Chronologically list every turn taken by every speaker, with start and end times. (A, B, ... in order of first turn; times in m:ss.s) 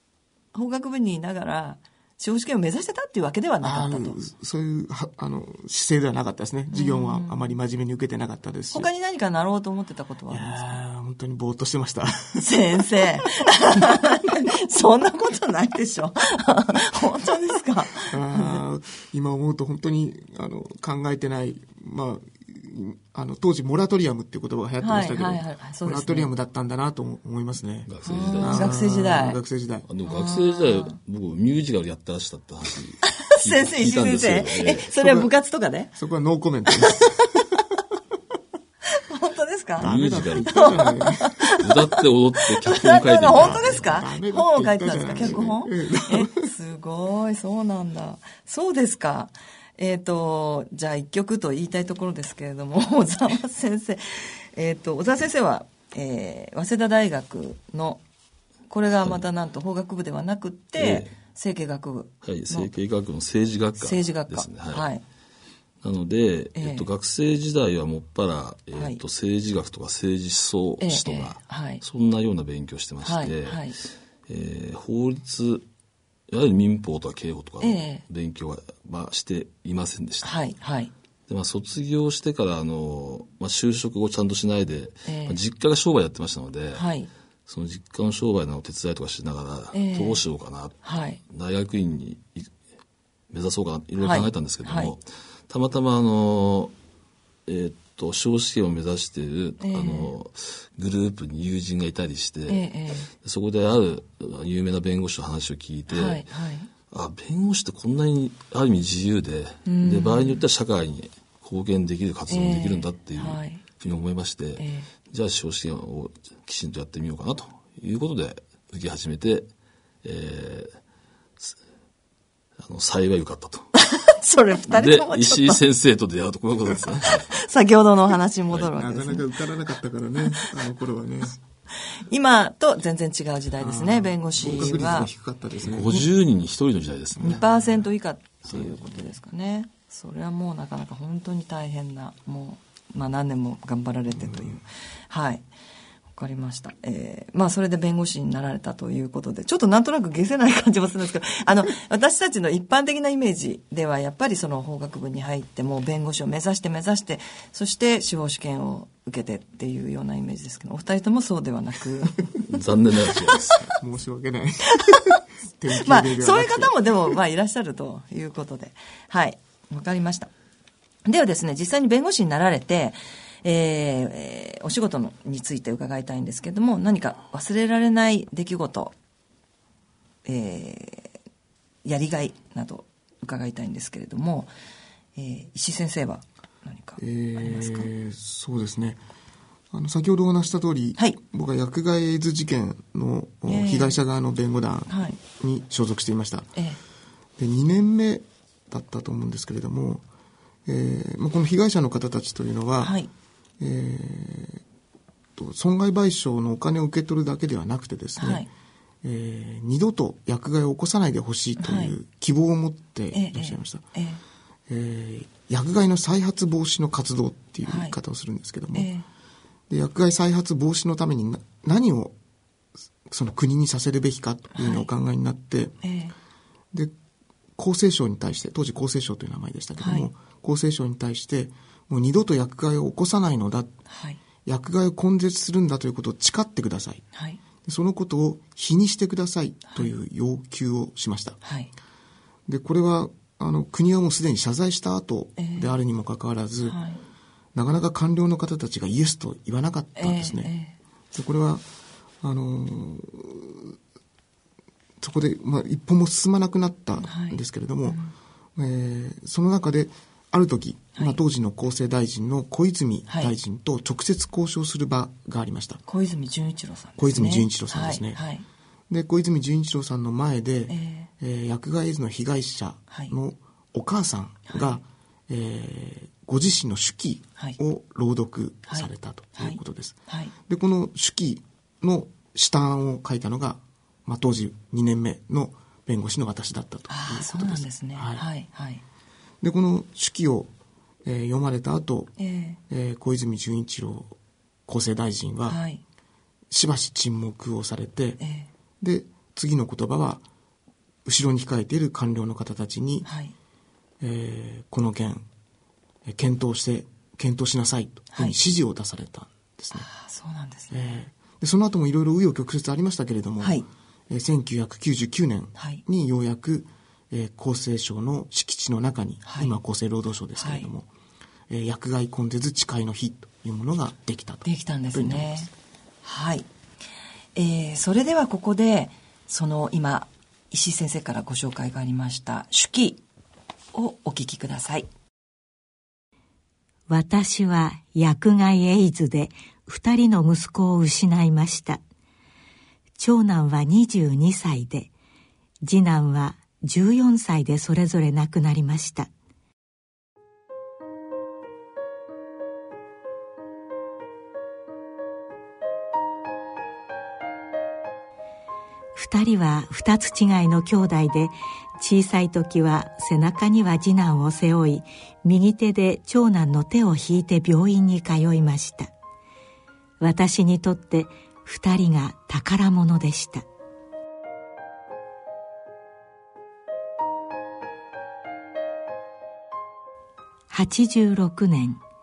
0:00.5-0:04.2 A
0:03.6-0:08.9 B
0:06.7-0:07.5 A
0:08.7-0:10.8 A
0:10.3-0:12.8 B
0:12.4-0:18.6 A
0:18.1-0:29.9 B
0:24.8-0:26.3 A
0:27.8-0:28.8 C
0:28.0-0:29.4 A
0:29.9-0:34.9 C
0:30.0-0:31.0 A
0:33.2-0:35.9 A
0:35.9-0:37.2 B
0:39.0-0:39.9 A
0:39.8-0:41.4 B
0:39.8-0:40.8 C
0:40.5-0:41.7 A
0:41.6-0:43.9 C
0:42.6-0:58.0 A
0:43.2-0:46.3 B
0:58.7-1:02.7 A
1:00.8-1:01.1 C
1:02.2-1:04.9 C
1:03.8-1:05.0 A
1:05.8-1:13.7 C
1:06.6-1:06.9 A
1:08.7-1:09.0 A
1:10.8-1:11.8 A
1:13.0-1:13.8 A
1:14.3-1:15.6 C
1:16.3-1:20.4 C
1:17.6-1:18.0 A
1:20.2-1:20.9 A
1:21.3-1:26.9 C
1:25.0-1:25.4 A
1:26.7-1:27.1 A
1:27.5-1:32.5 C
1:29.7-1:30.2 A
1:30.8-1:31.2 A
1:33.3-1:36.7 C
1:34.0-1:34.9 A
1:37.5-1:42.7 C
1:39.6-1:40.1 A
1:42.5-1:43.1 A
1:43.2-1:46.3 C
1:45.9-1:46.7 A
1:46.9-1:59.5 C
1:49.6-1:50.4 A
1:52.3-1:53.6 A
1:54.6-1:54.9 A
2:00.0-2:00.7 C
2:02.6-2:03.7 C
2:03.8-2:05.6 A
2:04.7-2:07.3 C
2:07.3-2:09.2 A
2:08.6-2:11.4 B
2:12.1-2:15.1 A
2:13.6-2:16.0 B
2:14.4-2:14.7 C
2:15.6-2:17.4 C
2:17.2-2:17.4 B
2:17.2-2:25.4 A
2:24.1-2:24.6 B
2:26.1-2:42.4 A
2:42.5-2:43.6 C
2:43.7-2:46.8 B
2:45.8-2:50.3 A
2:51.0-2:58.9 A
3:00.2-3:01.1 A
3:01.8-3:04.5 A
3:05.2-3:07.9 A
3:07.0-3:09.0 B
3:09.7-3:16.5 B
3:13.4-3:14.0 A
3:14.9-3:15.2 A
3:17.4-3:20.0 B
3:20.7-3:23.0 B
3:22.8-3:23.1 A
3:23.6-3:24.6 B
3:25.4-3:28.5 B
3:28.2-3:28.5 A
3:29.0-3:33.8 B
3:31.6-3:31.9 A
3:33.1-3:34.2 A
3:34.7-3:38.9 B
3:37.6-3:38.0 A
3:38.7-3:39.0 A
3:39.7-3:42.2 B
3:43.1-3:45.8 B
3:44.5-3:44.9 A
3:45.8-3:46.1 A
3:47.6-3:53.7 B
3:49.8-3:50.1 A
3:53.9-3:54.2 A
3:54.4-3:57.0 B
3:57.1-3:57.4 A
3:57.6-4:01.4 B
4:01.4-4:01.7 A
4:02.5-4:06.8 B
4:05.4-4:05.7 A
4:06.6-4:07.0 A
4:07.5-4:10.5 B
4:10.0-4:10.8 A
4:11.1-4:11.6 B
4:12.2-4:13.8 B
4:15.0-4:18.0 B
4:17.0-4:18.1 A
4:18.6-4:25.8 B
4:23.1-4:23.3 A
4:25.9-4:28.4 A
4:27.0-4:28.2 B
4:28.9-4:48.2 B
4:30.7-4:31.1 A
4:34.5-4:34.8 A
4:38.7-4:40.3 A
4:46.9-4:48.8 A
4:49.4-4:50.5 B
4:51.0-4:52.1 B
4:52.2-4:52.6 A
4:52.7-4:54.2 B
4:54.7-4:55.6 B
4:55.5-4:55.8 A
4:56.5-4:58.2 B
4:58.2-4:58.5 A
4:58.8-5:00.2 B
5:01.0-5:03.1 B
5:03.0-5:03.3 A
5:04.0-5:05.2 B
5:06.0-5:09.9 B
5:09.7-5:11.0 A
5:10.7-5:20.9 B
5:13.4-5:13.6 A
5:15.6-5:15.8 A
5:19.2-5:19.6 A
5:20.4-5:20.7 A
5:21.5-5:25.5 B
5:24.4-5:25.5 A
5:26.0-5:26.5 A
5:27.3-5:33.0 A
5:33.7-5:34.9 A
5:36.9-5:41.8 D
5:43.0-5:44.9 D
5:45.6-5:49.1 D
5:58.9-6:08.9 D
6:10.0-6:13.4 D
6:20.5-6:21.8 D